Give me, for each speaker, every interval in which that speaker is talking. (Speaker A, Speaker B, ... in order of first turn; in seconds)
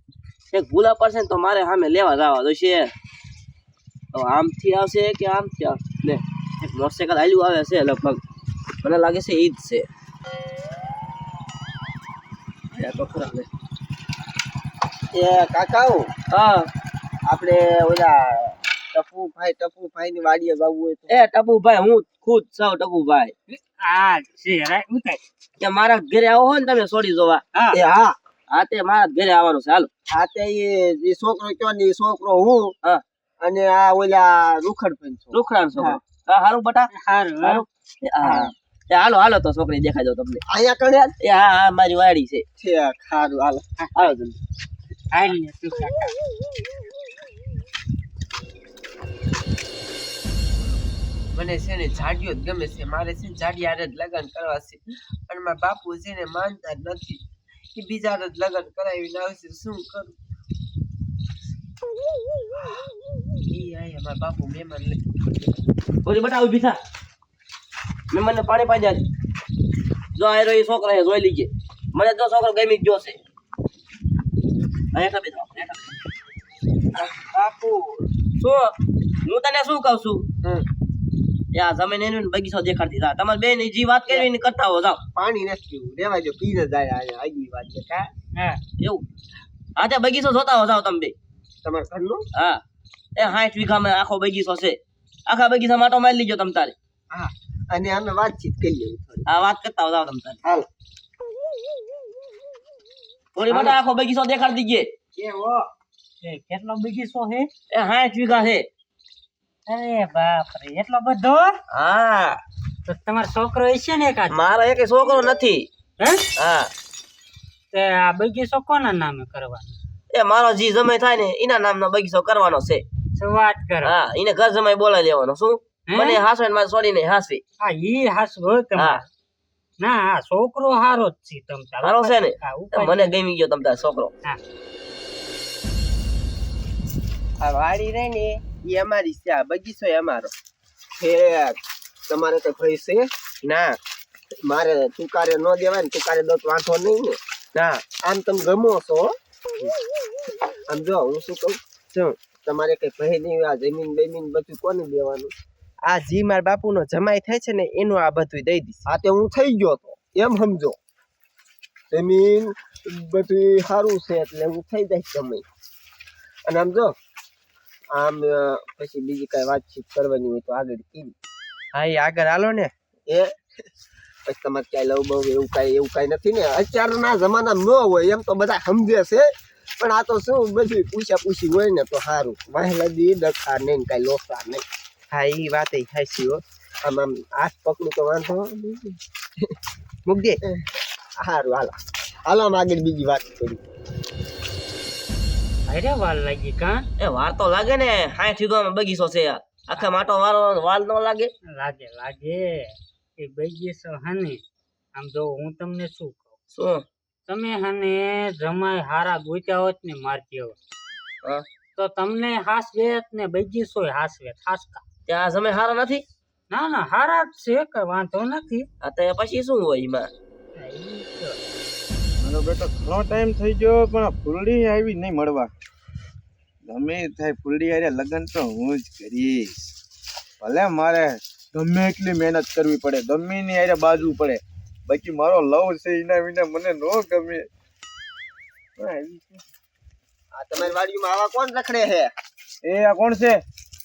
Speaker A: 0.5-2.9, 4.1-8.2, 8.8-9.8, 12.7-13.5, 16.3-16.7, 21.1-23.3, 25.6-27.4, 28.5-29.9, 35.3-36.9, 37.4-40.4, 41.2-42.4, 44.0-44.4, 66.0-66.8, 68.1-69.0, 70.2-73.2, 74.9-75.9, 78.4-78.7, 79.2-80.3, 81.5-85.0, 89.8-91.1, 92.3-92.6, 93.2-96.8, 99.3-100.4, 103.4-104.9, 107.7-108.7, 111.7-112.4, 114.3-115.7, 116.4-116.7, 120.1-122.8, 123.8-127.4, 128.8-129.0, 131.8-134.1, 197.0-201.3, 206.5-206.8, 215.1-216.0, 218.8-220.1
Speaker B: 15.1-16.1, 17.2-21.1, 27.7-28.2, 30.1-32.7, 33.4-36.0, 38.2-38.5, 40.5-41.2, 42.6-43.6, 77.0-77.8, 85.2-88.1, 91.6-92.2, 97.1-99.3, 141.0-143.1, 144.4-147.2, 147.9-149.1, 150.7-151.6, 152.4-155.3, 158.9-160.8, 161.9-165.4, 166.5-166.9, 167.9-171.1, 174.3-179.3, 179.8-184.6, 186.8-189.5, 191.2-191.7, 192.3-193.6, 240.3-242.1
Speaker C: 23.5-25.2, 27.5-27.8, 36.9-37.6, 43.8-44.1, 45.1-46.1, 88.3-88.6, 106.2-107.5, 109.7-111.5, 112.9-114.4, 116.0-116.2, 117.7-119.8, 123.2-123.9, 125.9-126.2, 127.6-129.1, 129.8-133.1, 195.7-196.9, 201.6-204.4, 204.9-206.3, 207.3-210.6, 211.8-214.8, 216.5-218.7, 220.6-221.4
Speaker D: 51.3-57.2, 57.7-60.1, 63.4-65.0, 137.4-140.3, 143.4-143.8, 147.5-147.8, 155.9-158.9, 171.7-172.7, 185.1-186.4, 190.1-190.4
Speaker E: 222.2-225.5, 226.7-229.6, 230.4-237.5, 238.8-239.4, 242.6-243.4